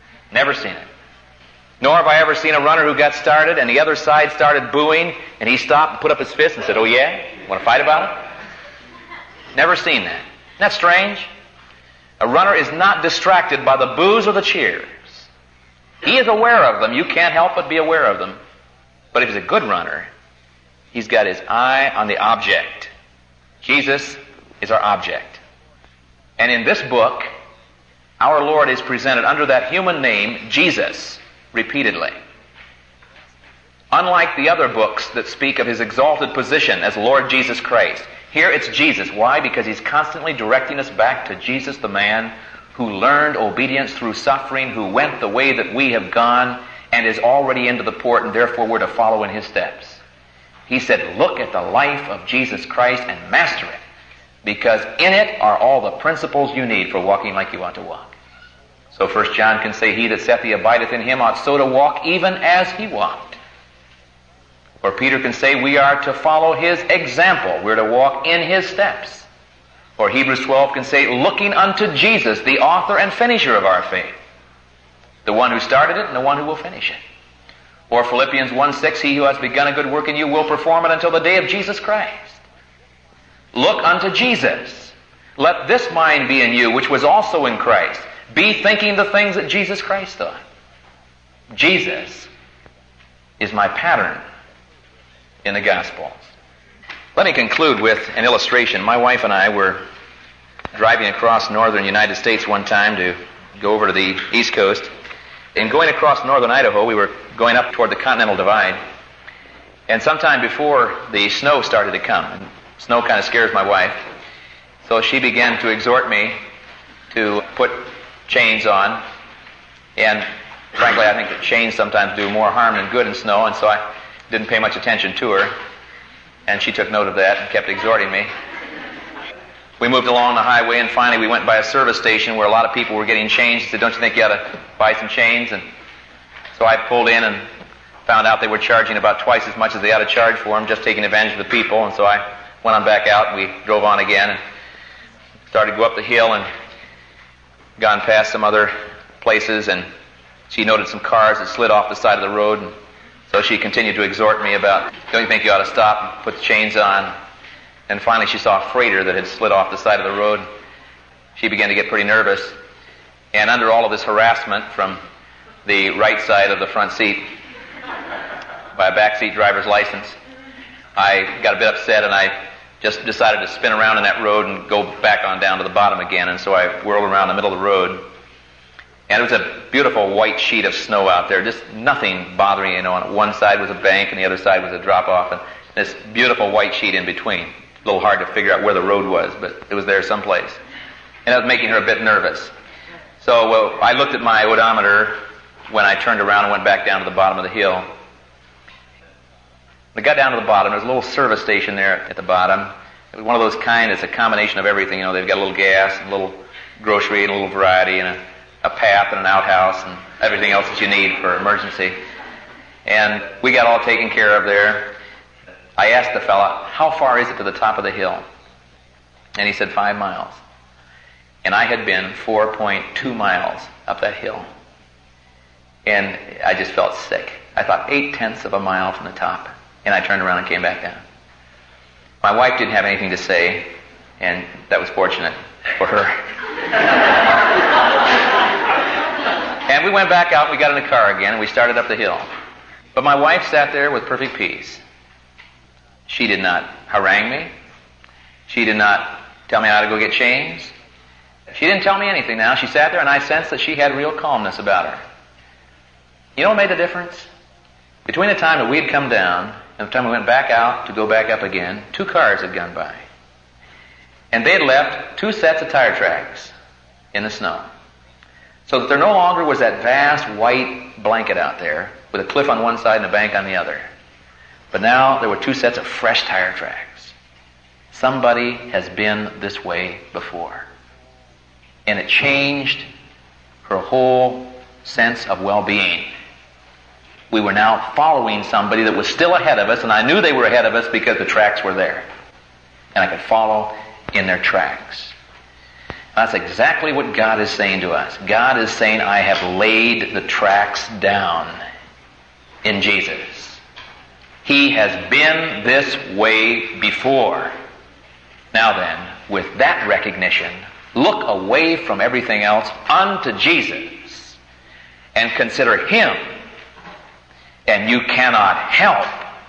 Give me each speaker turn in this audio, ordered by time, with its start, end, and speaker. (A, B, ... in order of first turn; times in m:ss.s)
0:00.3-0:00.8 A
0:01.8-0:08.2 A
0:09.5-0:11.3 A
0:12.2-0:15.3 A
0:16.0-0:18.4 A
0:19.1-0:20.1 A
0:20.9-0:22.9 A
0:23.6-0:25.4 A
0:26.4-0:27.3 A
0:28.2-0:32.2 A
0:33.9-0:50.0 A
0:50.7-0:53.8 A
0:54.4-0:58.1 A
0:58.9-1:03.4 A
1:04.8-1:09.3 A
1:10.0-1:14.1 A
1:15.2-1:17.0 A
1:17.9-1:22.4 A
1:23.5-1:30.4 A
1:31.5-1:32.3 A
1:33.4-1:34.2 A
1:35.4-1:36.2 A
1:37.2-1:39.8 A
1:40.7-1:44.9 A
1:45.5-1:48.8 A
1:49.9-1:54.0 A
1:54.8-1:56.3 A
1:57.1-1:59.0 A
2:00.0-2:05.5 A
2:06.5-2:08.3 A
2:09.8-2:15.6 A
2:16.5-2:17.4 A
2:18.0-2:24.4 A
2:25.5-2:26.4 A
2:27.8-2:29.8 A
2:30.5-2:32.7 A
2:33.3-2:37.1 A
2:37.9-2:40.4 A
2:41.4-2:42.5 A
2:43.3-2:45.0 A
2:45.6-2:47.2 A
2:48.8-2:50.2 A
2:51.0-2:58.0 A
2:59.1-3:10.6 A
3:11.2-3:12.5 A
3:13.2-3:15.2 A
3:15.7-3:17.8 A
3:19.9-3:32.0 A
3:32.8-3:34.9 A
3:35.8-3:38.2 A
3:39.4-3:40.4 A
3:41.4-3:44.4 A
3:45.8-3:51.0 A
3:52.2-3:53.7 A
3:54.2-3:56.2 A
3:59.7-4:02.3 A
4:02.9-4:04.8 A
4:06.1-4:07.5 A
4:08.5-4:10.7 A
4:11.5-4:15.0 A
4:16.4-4:17.3 A
4:18.0-4:23.0 A
4:24.3-4:26.5 A
4:27.1-4:27.6 A
4:28.7-4:33.9 A
4:34.7-4:37.1 A
4:37.9-4:40.7 A
4:41.8-4:42.8 A
4:43.6-4:46.1 A
4:47.3-4:52.0 A
4:52.9-4:55.1 A
4:56.1-5:01.5 A
5:02.6-5:03.6 A
5:04.4-5:07.5 A
5:08.5-5:14.4 A
5:15.1-5:16.2 A
5:17.7-5:19.2 A